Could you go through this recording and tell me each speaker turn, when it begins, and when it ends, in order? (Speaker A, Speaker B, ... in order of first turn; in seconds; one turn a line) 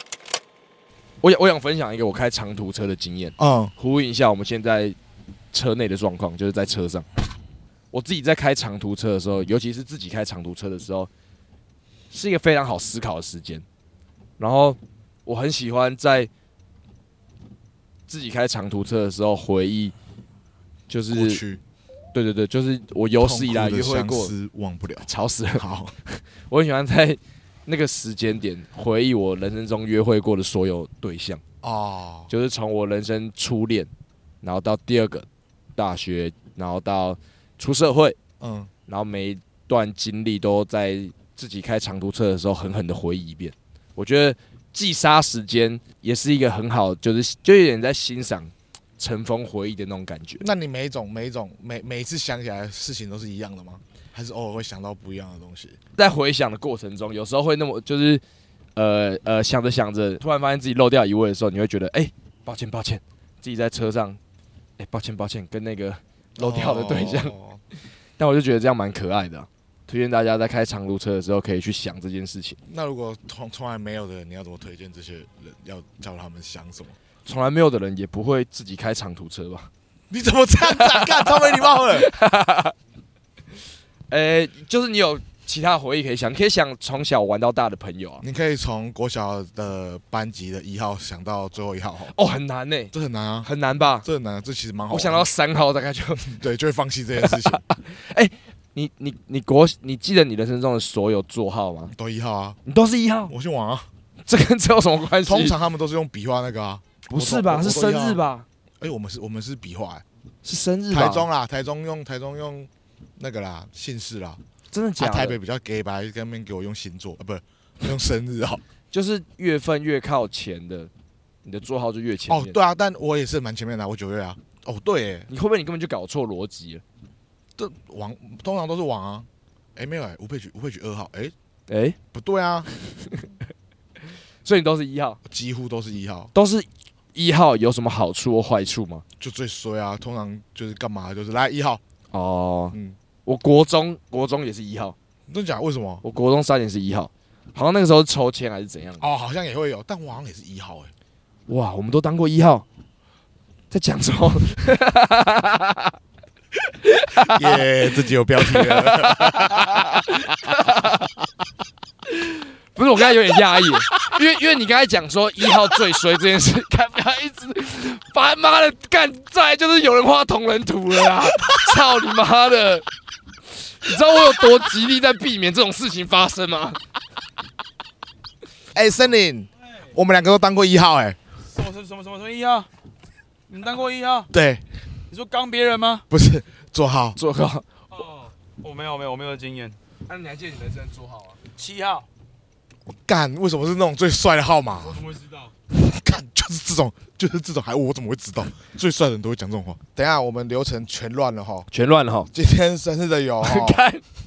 Speaker A: 1.2-5.0
Speaker B: 3.4-3.7
Speaker A: 5.5-7.0
Speaker A: 7.9-11.1
Speaker A: 12.1-13.6
Speaker A: 14.4-16.3
Speaker A: 18.1-19.9
Speaker A: 20.9-21.4
Speaker B: 21.1-21.6
Speaker A: 22.1-24.3
Speaker B: 23.2-25.9
Speaker A: 25.1-31.4
Speaker B: 31.6-32.3
Speaker A: 32.3-33.9
Speaker A: 34.4-38.2
Speaker B: 38.4-38.7
Speaker A: 38.9-50.4
Speaker B: 50.4-55.8
Speaker A: 56.0-58.2
Speaker A: 58.8-64.2
Speaker A: 64.8-67.3
Speaker B: 66.4-67.6
Speaker A: 68.2-72.6
Speaker B: 72.7-77.0
Speaker A: 77.2-79.7
Speaker B: 80.1-82.1
Speaker A: 80.7-82.7
Speaker A: 84.1-88.2
Speaker B: 88.2-92.1
Speaker A: 92.1-92.9
Speaker B: 92.9-93.5
Speaker A: 93.4-94.0
Speaker B: 94.0-95.3
Speaker A: 94.9-96.3
Speaker B: 96.2-97.6
Speaker A: 97.2-101.9
Speaker B: 101.9-102.6
Speaker A: 102.7-103.3
Speaker B: 103.3-103.9
Speaker A: 104.3-105.5
Speaker B: 105.2-108.2
Speaker A: 107.1-108.5
Speaker B: 108.8-110.0
Speaker A: 110.4-111.3
Speaker B: 110.9-114.4
Speaker A: 114.7-115.4
Speaker B: 115.0-118.6
Speaker A: 118.9-120.9
Speaker A: 121.4-122.5
Speaker B: 122.3-125.3
Speaker A: 125.3-126.8
Speaker B: 127.5-131.3
Speaker A: 131.7-132.0
Speaker B: 132.1-132.7
Speaker A: 132.8-133.2
Speaker A: 134.4-135.2
Speaker B: 135.2-136.3
Speaker A: 136.3-139.0
Speaker B: 139.2-141.8
Speaker A: 142.1-144.9
Speaker B: 145.3-146.0
Speaker A: 146.0-149.0
Speaker B: 149.0-150.9
Speaker A: 151.5-152.6
Speaker A: 153.7-155.9
Speaker A: 156.8-161.1
Speaker B: 157.3-160.2
Speaker A: 162.1-172.8
Speaker A: 173.8-176.8
Speaker B: 178.7-181.2
Speaker C: 181.5-182.7
Speaker C: 183.5-184.3
Speaker B: 184.3-184.6
Speaker C: 185.1-186.0
Speaker B: 186.1-187.2
Speaker A: 187.2-187.7
Speaker C: 187.9-189.8
Speaker A: 190.1-191.4
Speaker C: 191.6-192.1
Speaker B: 192.9-195.0
Speaker C: 194.9-195.5
Speaker B: 195.7-201.7
Speaker A: 201.7-202.3
Speaker B: 202.3-203.8
Speaker A: 203.4-204.0